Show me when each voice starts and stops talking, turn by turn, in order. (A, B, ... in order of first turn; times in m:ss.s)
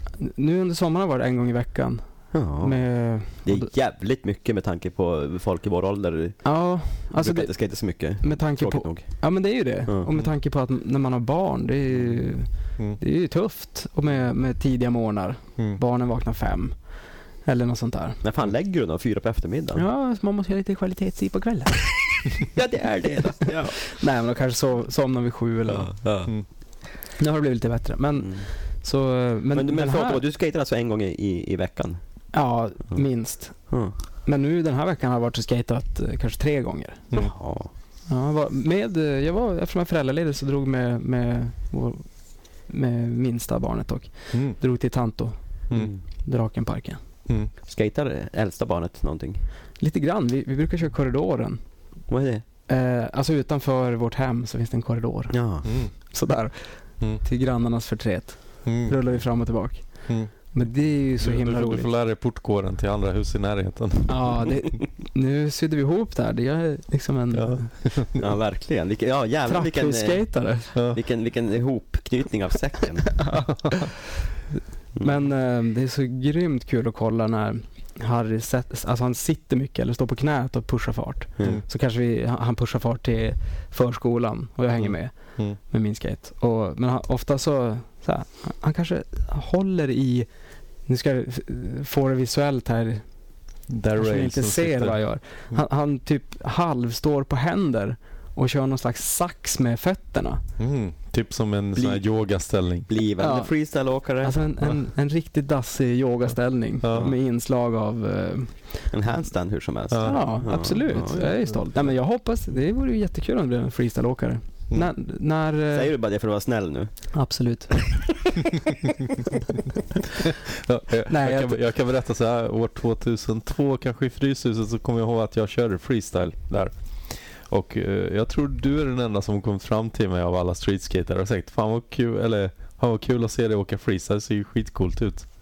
0:00.2-0:02.0 A
0:02.3-0:09.2 B
0:02.6-0:03.7 A
0:06.4-0:07.5 A
0:08.2-0:18.2 A
0:18.2-0:19.8 B
0:19.7-0:22.3 A
0:22.5-0:23.9 B
0:23.8-0:26.0 A
0:25.7-0:26.3 B
0:27.2-0:30.2 A
0:29.5-0:32.0 B
0:32.3-0:37.1 A
0:33.7-0:34.0 B
0:37.1-0:37.7 B
0:38.1-0:45.7 A
0:44.3-0:44.6 C
0:45.7-0:46.0 B
0:46.2-0:47.0 A
0:47.6-0:49.4 B
0:49.8-0:51.6 A
0:52.1-0:52.4 B
0:52.7-1:01.9 A
0:55.3-0:55.7 B
0:55.6-0:55.9 C
0:58.6-0:59.0 C
1:00.1-1:00.3 C
1:01.2-1:04.4 C
1:04.1-1:07.7 A
1:07.3-1:08.2 C
1:08.2-1:13.2 B
1:09.4-1:10.7 A
1:10.7-1:11.0 C
1:13.2-1:13.9 A
1:15.0-1:30.3 A
1:21.4-1:21.6 B
1:24.8-1:25.6 C
1:30.8-1:33.1 A
1:33.7-1:35.0 C
1:34.0-1:40.4 A
1:40.6-1:42.9 C
1:41.7-1:42.0 B
1:42.9-1:44.4 B
1:43.2-1:43.5 A
1:44.2-1:48.8 A
1:46.8-1:47.1 C
1:48.9-1:51.4 B
1:49.9-1:50.2 C
1:50.0-1:55.9 A
1:55.7-1:57.1 B
1:57.1-1:57.9 A
2:00.5-2:15.3 C
2:01.0-2:01.6 A